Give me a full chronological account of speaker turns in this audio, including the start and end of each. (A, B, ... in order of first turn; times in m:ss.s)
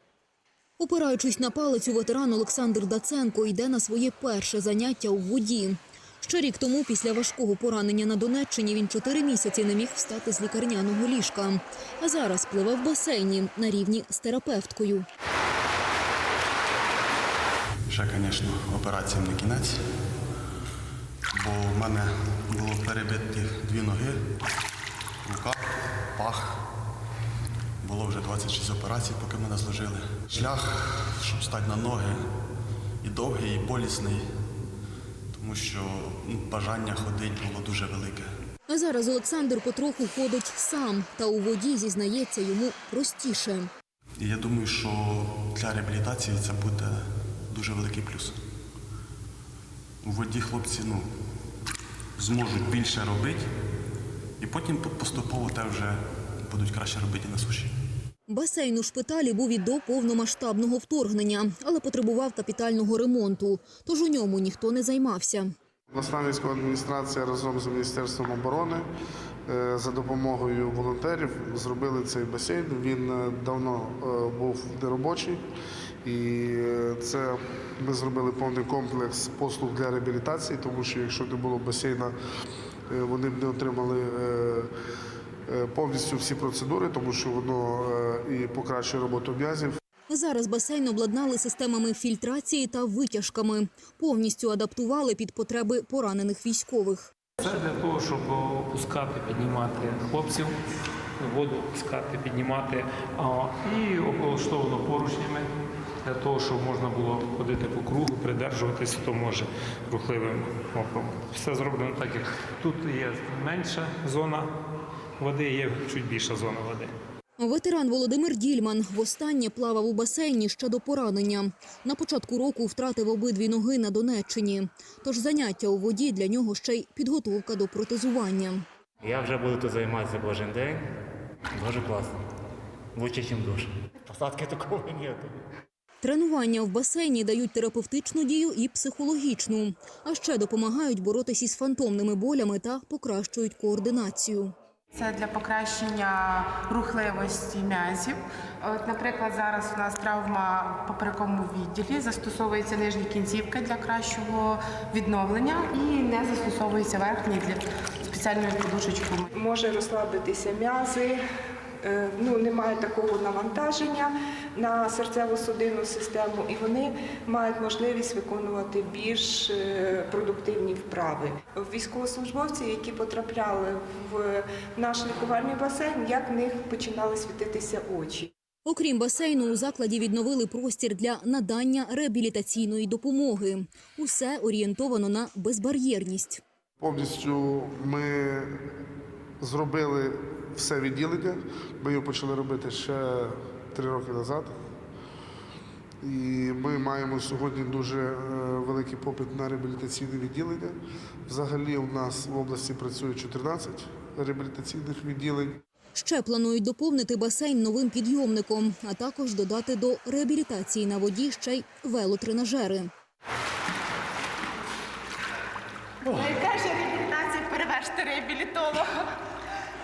0:00.8-0:15.0 A
0:17.9-0:19.8 B
0:21.3-0:24.2 B
0:25.2-0:26.6 B
0:27.8-0:32.2 B
0:33.0-0:34.3 B
0:35.3-0:38.3 B
0:38.7-0:43.7 A
0:44.2-0:48.4 B
0:50.0-0:51.1 B
0:52.2-0:53.4 B
0:54.4-0:57.7 B
0:58.3-1:05.5 A
1:05.9-1:08.9 C
1:09.5-1:15.4 C
1:16.0-1:22.1 C
1:22.9-1:24.7 C
1:25.5-1:29.8 C
1:30.1-1:37.1 A
1:37.4-1:40.6 D
1:41.2-1:45.5 D
1:46.0-1:54.5 D
1:55.2-1:56.9 D
1:57.4-2:08.6 A
2:09.0-2:10.8 E
2:11.6-2:12.1 E
2:13.0-2:15.3 E
2:16.0-2:24.5 A
2:24.9-2:39.3 F
2:39.3-2:41.2 G
2:41.8-2:58.3 G
2:58.7-3:06.4 A
3:06.8-3:08.5 C
3:09.4-3:14.5 C
3:16.0-3:20.8 C
3:21.3-3:25.6 C
3:26.0-3:32.9 A
3:36.0-3:38.9 F